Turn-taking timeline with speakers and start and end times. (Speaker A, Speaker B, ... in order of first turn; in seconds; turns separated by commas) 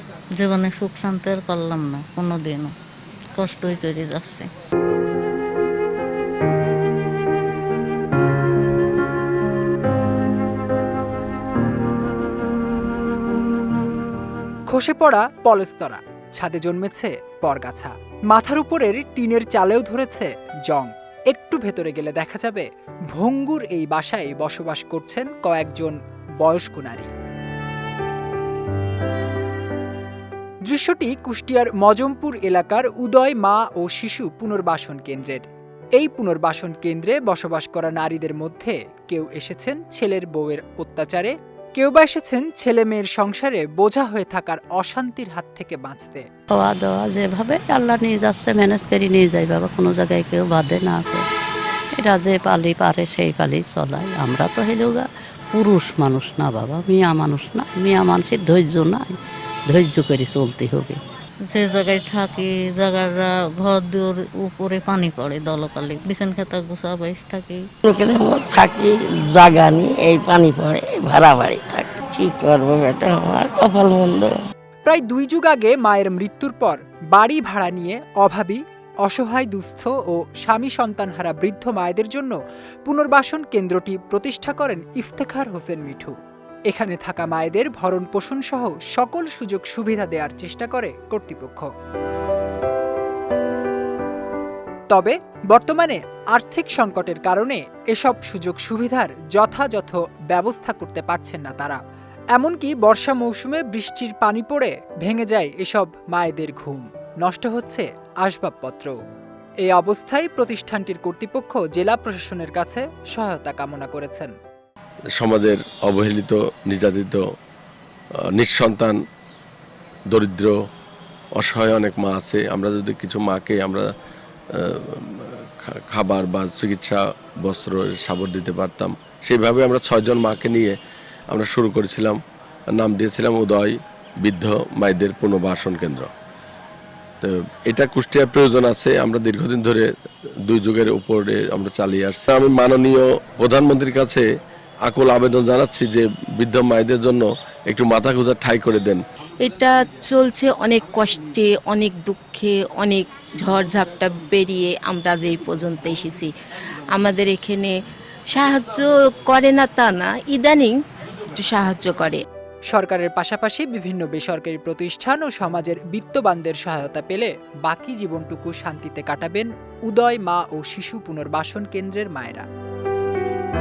Speaker A: 0.4-2.7, Speaker A: 3.4-4.5, Speaker B: 14.7-27.1, Speaker B: 30.6-35.4, Speaker B: 36.0-46.3, Speaker C: 46.6-51.2, Speaker C: 52.0-59.1, Speaker C: 59.7-61.0, Speaker A: 61.5-67.6, Speaker D: 67.8-74.3, Speaker B: 74.9-82.3, Speaker B: 82.9-86.2, Speaker B: 86.7-91.7, Speaker B: 94.9-101.8, Speaker B: 102.3-109.0, Speaker B: 109.7-114.3, Speaker E: 115.2-117.2, Speaker E: 118.2-119.0, Speaker E: 120.1-120.6, Speaker E: 121.3-123.9, Speaker E: 124.5-130.8, Speaker E: 131.3-132.2, Speaker E: 132.7-136.1, Speaker E: 137.2-139.9, Speaker E: 140.4-144.3, Speaker E: 144.9-149.0, Speaker F: 149.4-156.3, Speaker F: 156.9-157.7, Speaker F: 158.3-160.7, Speaker F: 161.4-162.2, Speaker B: 162.7-172.5